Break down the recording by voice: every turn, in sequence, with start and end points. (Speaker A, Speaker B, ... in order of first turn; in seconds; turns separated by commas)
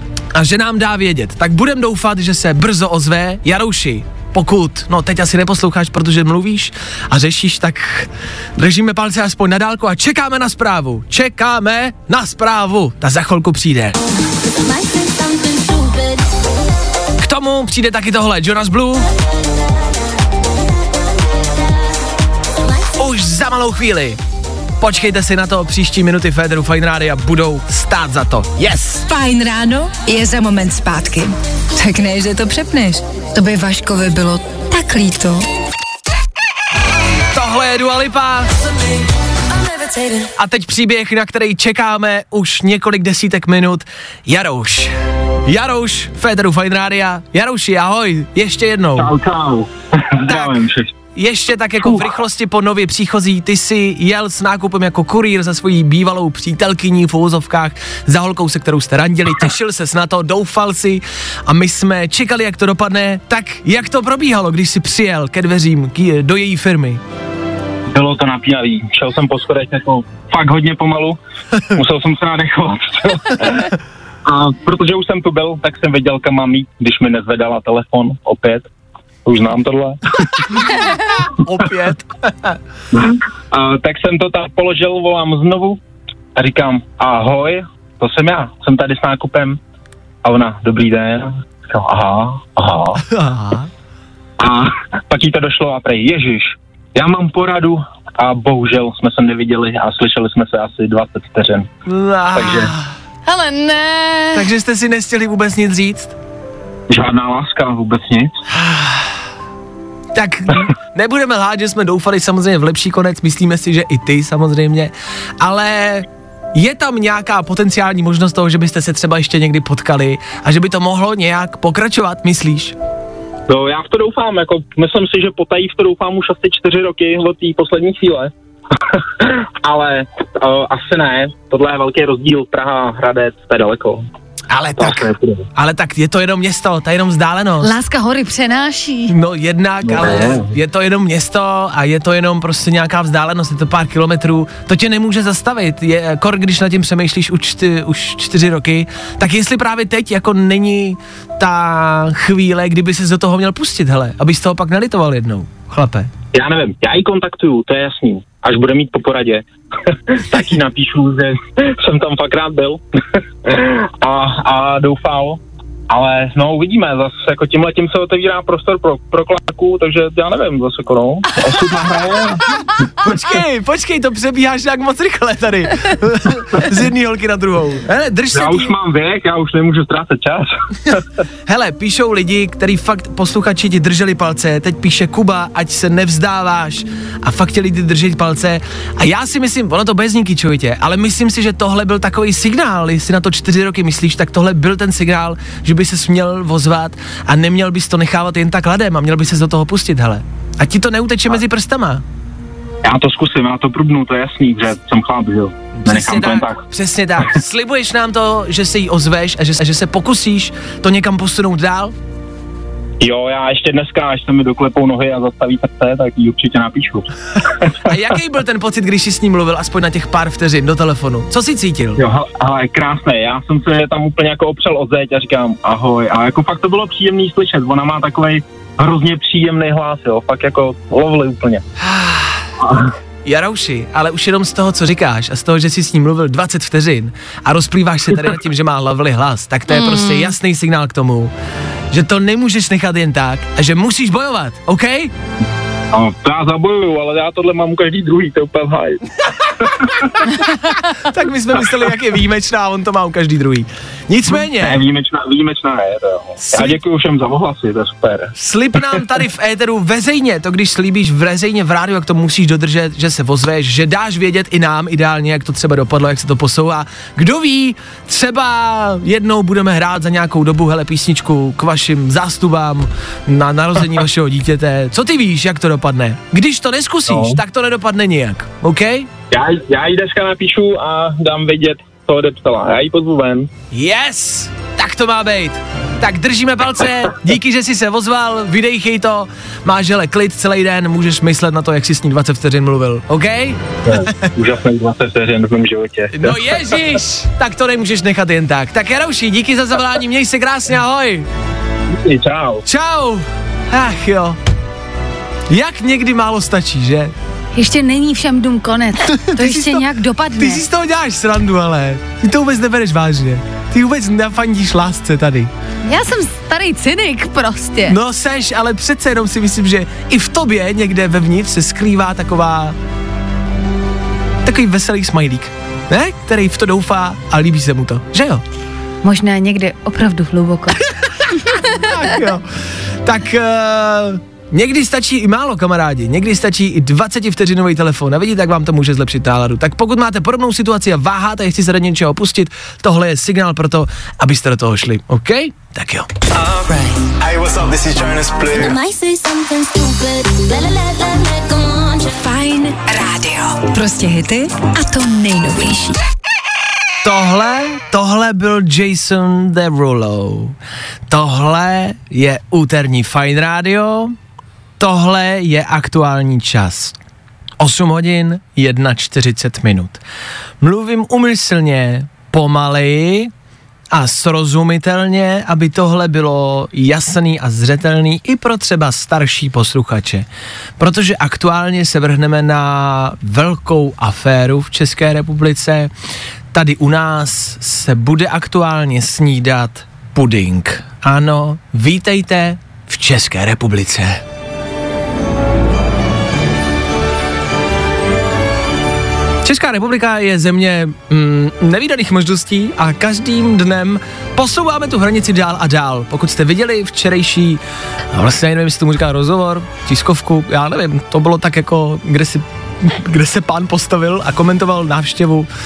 Speaker A: 0.3-14.0, Speaker B: 14.4-16.3, Speaker A: 17.2-19.1, Speaker A: 22.9-24.2, Speaker A: 24.8-29.0, Speaker C: 29.0-35.5, Speaker A: 37.3-38.5, Speaker C: 39.5-40.3, Speaker A: 40.4-44.9, Speaker A: 45.5-49.1, Speaker D: 49.0-50.9, Speaker A: 50.2-50.6, Speaker A: 51.1-67.0, Speaker D: 67.9-71.2, Speaker D: 71.7-73.7, Speaker D: 74.2-78.6, Speaker D: 79.2-80.7, Speaker A: 80.9-82.6, Speaker D: 82.9-85.8, Speaker D: 86.3-89.6, Speaker D: 90.2-93.0, Speaker A: 93.0-93.7, Speaker D: 94.4-101.7, Speaker A: 101.8-102.9, Speaker D: 102.3-102.7, Speaker E: 103.2-104.5, Speaker A: 104.3-106.1, Speaker D: 106.9-108.3, Speaker A: 108.5-109.1, Speaker A: 110.1-122.8, Speaker D: 123.5-128.3, Speaker D: 128.9-134.1, Speaker A: 134.5-137.7, Speaker D: 134.8-135.4, Speaker E: 137.6-139.1, Speaker A: 139.1-156.1, Speaker D: 139.8-140.5, Speaker D: 156.3-162.8, Speaker D: 163.4-172.4, Speaker A: 173.0-178.7, Speaker D: 178.3-181.0, Speaker A: 181.5-202.0, Speaker D: 202.8-206.6, Speaker A: 205.8-211.9, Speaker D: 213.0-217.9, Speaker A: 217.8-222.0, Speaker D: 222.0-231.6, Speaker A: 231.8-232.5, Speaker D: 232.6-232.9, Speaker A: 233.2-241.3, Speaker E: 239.8-240.2, Speaker A: 241.9-245.1, Speaker D: 245.9-250.5, Speaker A: 250.8-254.8, Speaker D: 254.4-259.0, Speaker A: 256.4-256.8, Speaker A: 258.4-279.1, Speaker D: 277.1-277.4, Speaker D: 279.3-283.5, Speaker A: 283.7-294.2, Speaker D: 293.9-296.8, Speaker A: 296.1-301.3, Speaker D: 301.9-302.6, Speaker A: 302.6-304.4, Speaker A: 305.5-307.1, Speaker E: 307.5-310.6, Speaker A: 309.0-315.5, Speaker E: 315.9-318.0, Speaker A: 317.9-322.8, Speaker A: 324.4-328.4, Speaker E: 329.0-330.8, Speaker A: 331.4-332.5, Speaker A: 333.0-346.1, Speaker F: 346.3-348.8, Speaker B: 348.5-352.1, Speaker C: 352.1-356.0, Speaker A: 357.0-360.6, Speaker A: 361.1-364.1, Speaker A: 364.8-367.0, Speaker A: 367.6-370.0, Speaker A: 370.6-373.3, Speaker A: 373.9-380.3, Speaker A: 380.8-385.9, Speaker A: 386.5-394.2, Speaker A: 399.4-407.6, Speaker A: 408.1-415.5